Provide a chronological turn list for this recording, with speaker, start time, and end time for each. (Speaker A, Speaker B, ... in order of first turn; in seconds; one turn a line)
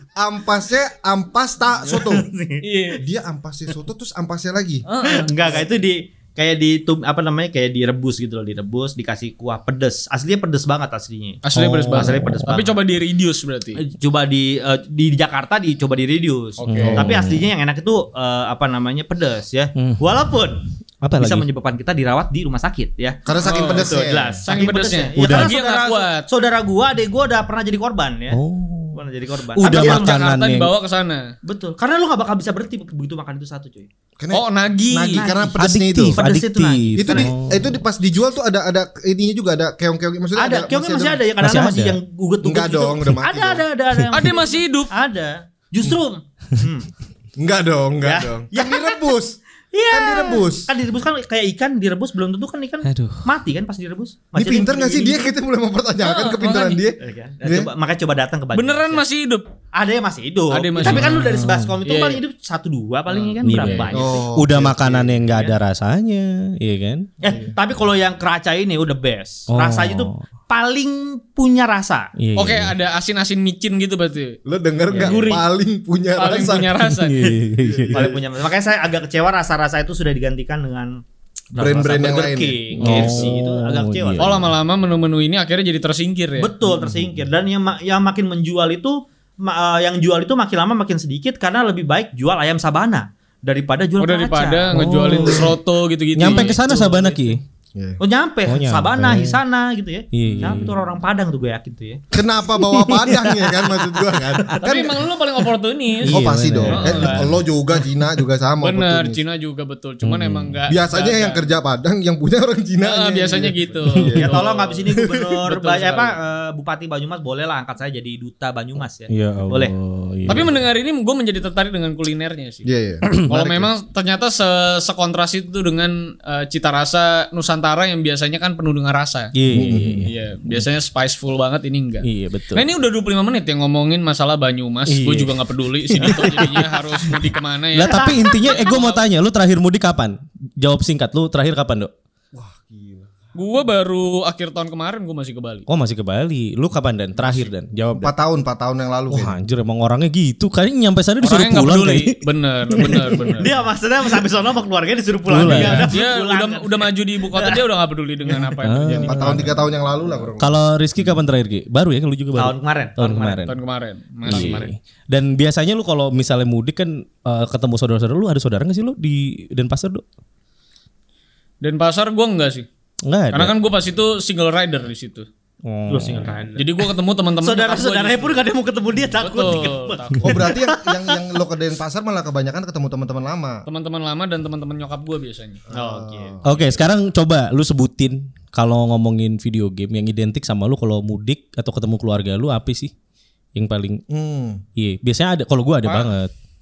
Speaker A: 0.1-2.3
Speaker B: 1.9-2.6
Speaker C: 2.6-3.0
Speaker A: 3.0-4.8
Speaker C: 4.9-5.3
Speaker B: 5.0-12.8
Speaker C: 11.4-13.8
Speaker D: 11.5-12.4
Speaker B: 13.8-28.4
Speaker C: 16.6-17.0
Speaker D: 16.7-17.5
Speaker D: 19.8-20.0
Speaker D: 21.0-21.4
Speaker A: 23.2-24.4
Speaker C: 23.4-26.3
Speaker D: 25.1-25.5
Speaker D: 28.3-29.0
Speaker B: 28.9-30.2
Speaker D: 29.5-30.7
Speaker C: 29.6-31.3
Speaker B: 31.4-33.9
Speaker A: 34.2-36.2
Speaker C: 34.3-35.3
Speaker B: 35.1-35.6
Speaker D: 35.6-37.8
Speaker B: 36.1-37.3
Speaker A: 37.0-41.2
Speaker B: 40.4-46.9
Speaker D: 41.4-42.0
Speaker A: 42.4-43.6
Speaker C: 44.1-44.9
Speaker A: 47.4-49.4
Speaker B: 48.0-49.1
Speaker B: 49.7-55.3
Speaker A: 49.9-50.7
Speaker D: 52.8-53.3
Speaker A: 54.3-57.7
Speaker C: 56.0-56.8
Speaker B: 57.0-59.0
Speaker C: 58.5-59.5
Speaker B: 59.7-64.3
Speaker C: 60.5-62.2
Speaker D: 60.8-61.8
Speaker C: 63.1-64.0
Speaker D: 63.4-67.1
Speaker A: 63.9-65.2
Speaker B: 65.3-65.5
Speaker B: 67.2-72.1
Speaker A: 67.3-67.5
Speaker D: 69.5-70.2
Speaker D: 72.2-72.7
Speaker C: 72.3-74.4
Speaker A: 74.5-76.8
Speaker C: 74.9-75.5
Speaker B: 74.9-75.3
Speaker C: 76.1-77.3
Speaker D: 76.8-78.1
Speaker A: 77.6-78.2
Speaker B: 77.9-81.0
Speaker B: 81.5-84.4
Speaker A: 81.5-83.1
Speaker D: 82.8-84.5
Speaker C: 82.8-83.3
Speaker C: 84.2-86.5
Speaker B: 86.4-94.7
Speaker D: 86.6-87.2
Speaker C: 94.0-97.3
Speaker D: 94.7-95.6
Speaker D: 96.1-97.4
Speaker A: 97.7-98.0
Speaker B: 98.0-102.0
Speaker D: 98.5-99.4
Speaker D: 100.1-100.7
Speaker C: 100.2-100.7
Speaker A: 102.1-105.0
Speaker D: 102.6-104.6
Speaker C: 104.6-107.3
Speaker D: 106.0-107.4
Speaker A: 106.0-109.2
Speaker C: 108.6-111.5
Speaker D: 110.0-110.6
Speaker A: 110.7-114.5
Speaker C: 112.8-116.2
Speaker D: 113.9-114.2
Speaker B: 114.2-119.7
Speaker D: 119.1-120.6
Speaker C: 120.3-122.7
Speaker A: 122.6-123.7
Speaker D: 123.0-123.4
Speaker C: 123.2-129.3
Speaker D: 129.3-130.7
Speaker A: 129.5-130.1
Speaker C: 130.1-139.0
Speaker D: 132.0-132.7
Speaker D: 134.9-141.9
Speaker B: 137.9-138.2
Speaker A: 142.3-143.1
Speaker C: 143.3-145.7
Speaker D: 145.7-148.1
Speaker C: 147.2-147.4
Speaker A: 147.9-149.4
Speaker D: 149.1-153.5
Speaker C: 151.2-153.5
Speaker B: 153.4-157.6
Speaker D: 155.3-155.9
Speaker C: 155.4-159.4
Speaker D: 158.6-159.7
Speaker A: 159.0-160.6
Speaker D: 160.4-163.5
Speaker B: 162.3-163.4
Speaker C: 163.4-164.7
Speaker D: 164.2-170.0
Speaker B: 164.3-164.6
Speaker C: 171.6-172.7
Speaker D: 173.0-173.5
Speaker C: 173.3-175.2
Speaker D: 175.6-176.3
Speaker B: 175.9-176.8
Speaker C: 176.6-178.5
Speaker B: 177.4-181.2
Speaker C: 179.1-180.3
Speaker A: 180.2-183.6
Speaker C: 183.7-185.6
Speaker A: 185.7-186.5
Speaker B: 185.7-186.4
Speaker D: 186.4-192.9
Speaker D: 193.5-194.0
Speaker A: 194.1-194.6
Speaker D: 194.8-196.3